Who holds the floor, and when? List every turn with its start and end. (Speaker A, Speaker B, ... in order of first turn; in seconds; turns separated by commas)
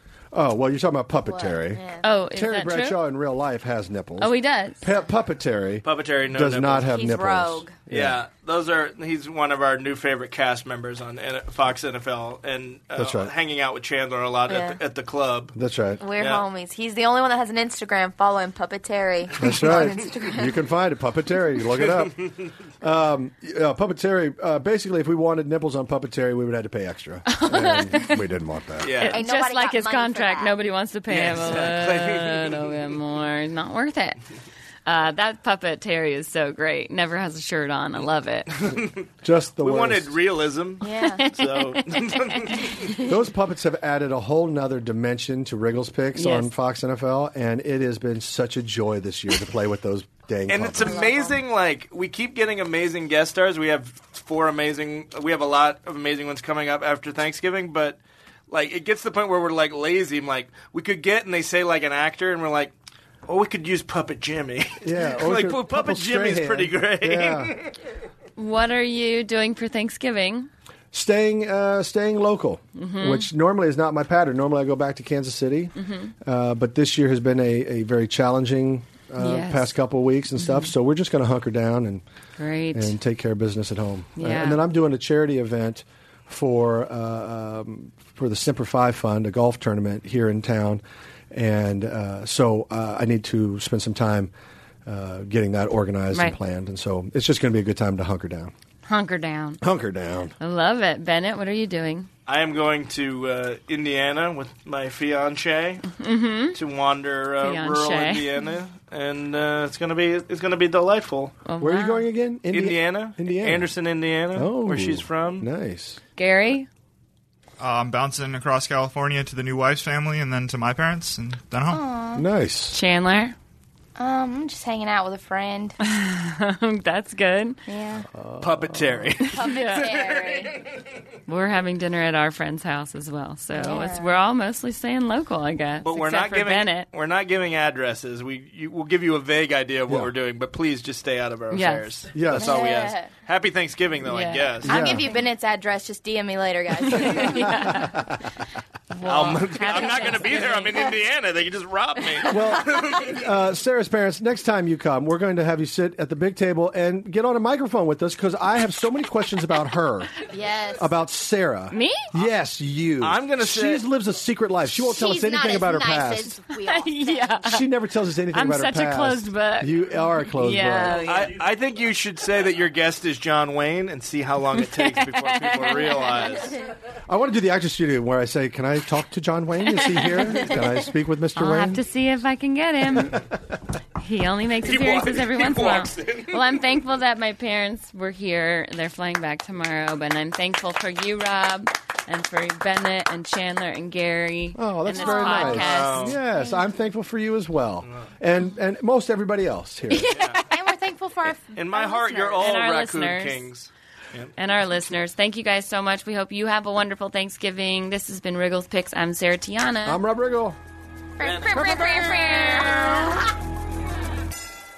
Speaker A: 0.3-8.2, Speaker B: 1.3-2.1, Speaker C: 2.0-3.0, Speaker C: 4.2-4.8, Speaker D: 5.8-6.9, Speaker B: 6.8-7.8, Speaker D: 7.9-15.5, Speaker A: 13.0-13.3, Speaker B: 14.5-14.8, Speaker A: 15.6-16.0, Speaker B: 16.0-20.5, Speaker D: 16.2-16.4, Speaker A: 19.4-29.0, Speaker C: 27.3-28.3, Speaker D: 28.8-29.2, Speaker C: 29.0-34.2, Speaker B: 29.1-30.6, Speaker D: 31.1-32.7, Speaker C: 34.9-38.5, Speaker D: 38.6-38.9, Speaker A: 39.2-40.1, Speaker D: 39.6-42.9, Speaker B: 40.8-41.2, Speaker C: 41.0-42.9, Speaker A: 43.0-51.0, Speaker C: 46.2-46.5, Speaker D: 50.5-58.0, Speaker B: 50.8-51.4, Speaker D: 58.5-62.7, Speaker D: 63.3-67.7, Speaker A: 64.8-67.5, Speaker C: 68.4-70.5, Speaker A: 70.9-82.0, Speaker C: 72.8-73.3, Speaker C: 75.8-76.1, Speaker C: 79.2-79.8, Speaker C: 80.4-80.7, Speaker C: 82.4-83.0, Speaker A: 82.7-94.3, Speaker C: 84.2-84.6, Speaker A: 94.9-98.5, Speaker C: 98.9-99.6, Speaker A: 99.6-100.3, Speaker C: 100.4-102.1, Speaker D: 102.3-105.9, Speaker C: 106.0-106.6, Speaker D: 106.5-111.4, Speaker C: 107.4-108.3, Speaker C: 111.5-112.1, Speaker A: 111.6-113.7, Speaker D: 112.5-115.5, Speaker A: 114.3-116.0, Speaker C: 116.2-116.7, Speaker E: 117.6-121.8, Speaker B: 121.7-122.3, Speaker A: 122.2-122.8, Speaker C: 122.7-123.4, Speaker B: 124.0-125.8, Speaker C: 125.8-127.6, Speaker B: 127.7-128.1, Speaker A: 128.1-129.1, Speaker D: 128.4-130.7, Speaker C: 129.3-129.9, Speaker B: 129.3-130.7, Speaker C: 131.3-136.9, Speaker B: 133.5-134.2, Speaker D: 135.8-144.9, Speaker C: 141.5-141.9, Speaker A: 142.1-142.7, Speaker B: 142.3-143.1, Speaker C: 144.1-144.9, Speaker A: 144.7-145.1, Speaker B: 144.7-147.9, Speaker C: 146.9-148.0, Speaker A: 147.2-148.1, Speaker C: 148.9-150.9, Speaker D: 149.1-153.3, Speaker B: 149.7-150.9, Speaker A: 152.2-160.1, Speaker B: 160.3-160.9, Speaker A: 160.8-166.4, Speaker C: 161.7-162.1, Speaker D: 163.0-163.8, Speaker B: 164.7-167.4, Speaker C: 166.7-167.7, Speaker A: 167.4-171.0, Speaker C: 168.3-171.3, Speaker D: 170.9-176.6, Speaker C: 174.5-176.3, Speaker A: 177.1-181.8, Speaker C: 179.7-180.6, Speaker C: 181.4-183.3, Speaker C: 184.0-196.2, Speaker D: 184.6-186.4, Speaker A: 194.6-200.2, Speaker B: 195.0-195.6, Speaker D: 195.4-196.2, Speaker D: 200.1-200.4, Speaker B: 200.2-202.5, Speaker D: 201.5-204.3, Speaker C: 202.4-203.5, Speaker C: 204.4-210.0, Speaker A: 209.8-210.6, Speaker B: 211.2-213.3, Speaker A: 211.5-212.5